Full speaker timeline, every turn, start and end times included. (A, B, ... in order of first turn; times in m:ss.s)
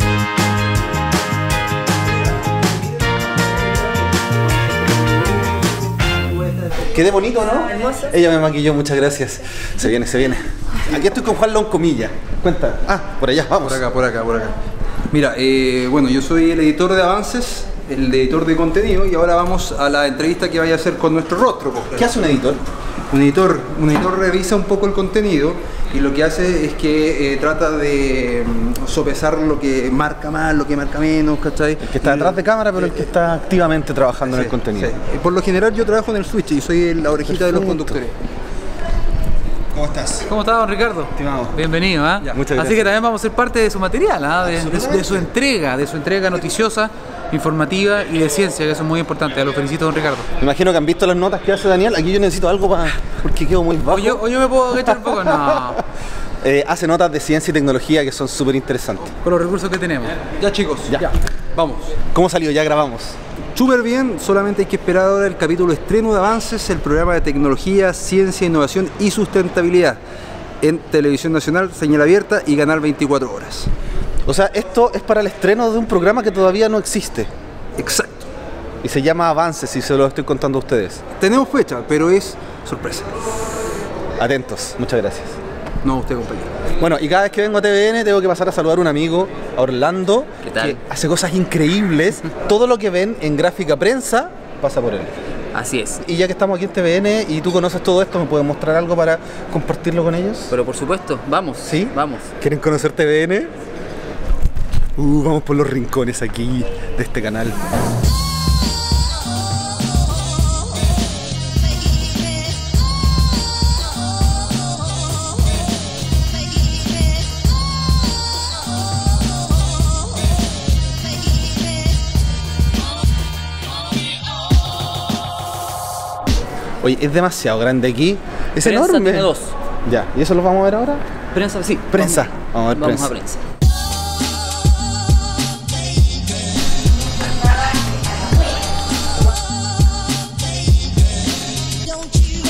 0:06.9-0:13.8 A
0:13.6-0:14.5 B
0:15.1-0:22.2 B
0:22.0-0:22.6 A
0:23.1-0:32.4 B
0:31.8-0:34.9 A
0:34.2-0:38.1 B
0:37.3-0:38.0 A
0:39.7-0:40.3 A
0:40.2-0:50.3 C
0:41.2-0:41.6 A
0:42.3-0:42.9 A
0:44.4-0:45.2 A
0:50.4-0:54.2 A
0:54.0-0:55.8 C
0:56.4-0:59.1 A
0:59.2-1:00.2 C
1:00.2-1:01.9 B
1:02.1-1:03.2 A
1:03.5-1:10.0 B
1:10.6-1:13.7 B
1:14.2-1:17.3 A
1:17.8-1:18.3 B
1:18.8-1:21.0 A
1:21.2-1:23.1 B
1:24.2-1:25.4 A
1:25.8-1:26.5 B
1:26.8-1:35.1 A
1:30.4-1:30.8 D
1:35.5-1:36.0 D
1:36.0-1:40.5 A
1:40.5-1:42.3 D
1:41.6-1:43.5 A
1:45.0-1:47.6 A
2:06.8-2:09.3 A
2:08.6-2:09.5 D
2:09.8-2:11.0 A
2:11.3-2:13.4 D
2:11.9-2:13.1 A